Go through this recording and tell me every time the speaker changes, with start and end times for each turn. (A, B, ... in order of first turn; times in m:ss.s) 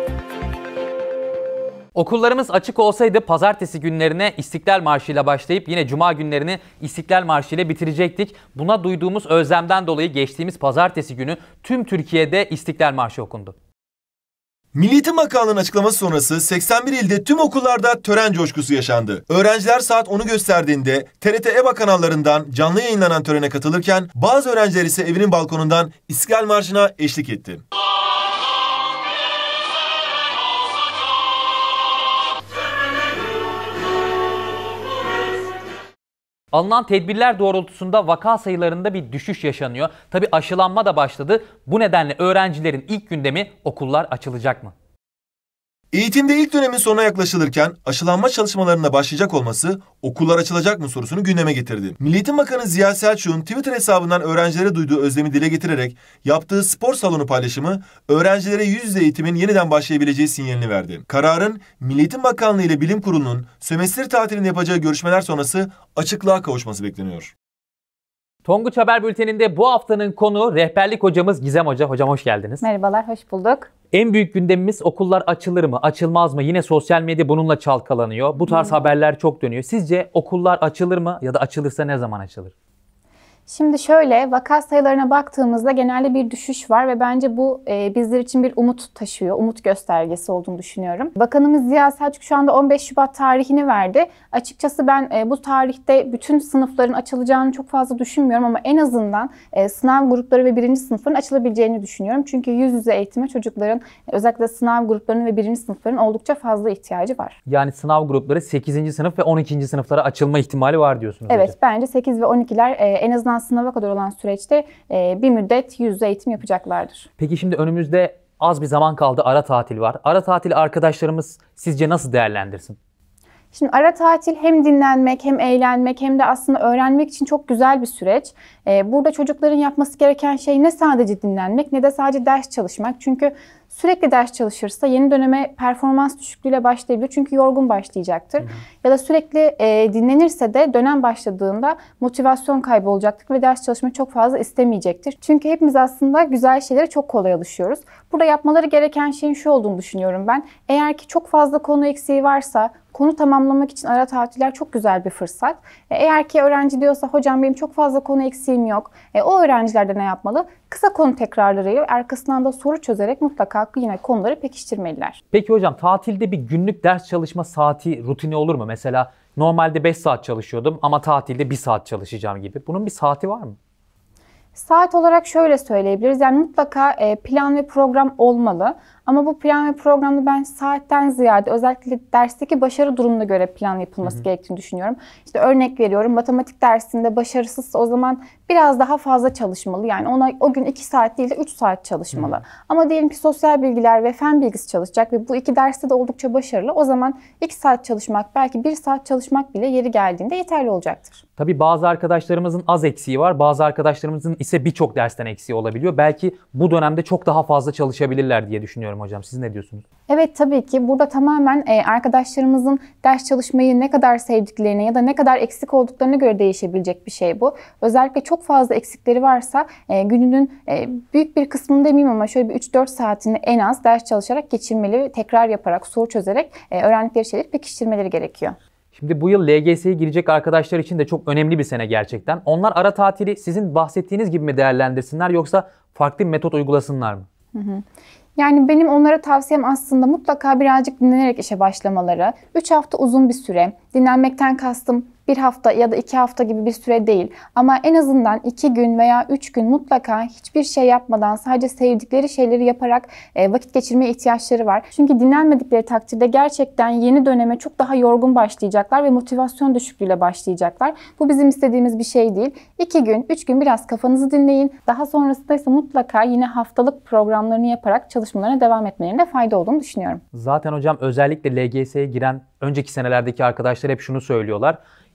0:02.0-0:13.5 A
0:14.7-0:27.6 B
0:36.5-0:44.7 A
0:45.9-1:07.3 B
1:08.4-1:12.6 A
1:12.6-1:13.7 C
1:13.9-1:22.5 A
1:18.4-1:18.8 C
1:23.5-1:47.3 C
1:47.5-1:51.5 A
1:51.3-1:57.1 C
1:57.2-2:02.8 A
2:03.5-2:45.2 C
2:45.3-2:53.6 A
2:54.6-3:21.2 C
3:12.1-3:12.4 A
3:21.4-3:29.8 A
3:30.1-3:48.6 C
3:48.9-3:57.2 A
3:57.5-3:57.8 C
3:58.4-4:30.2 C
4:30.3-4:34.8 A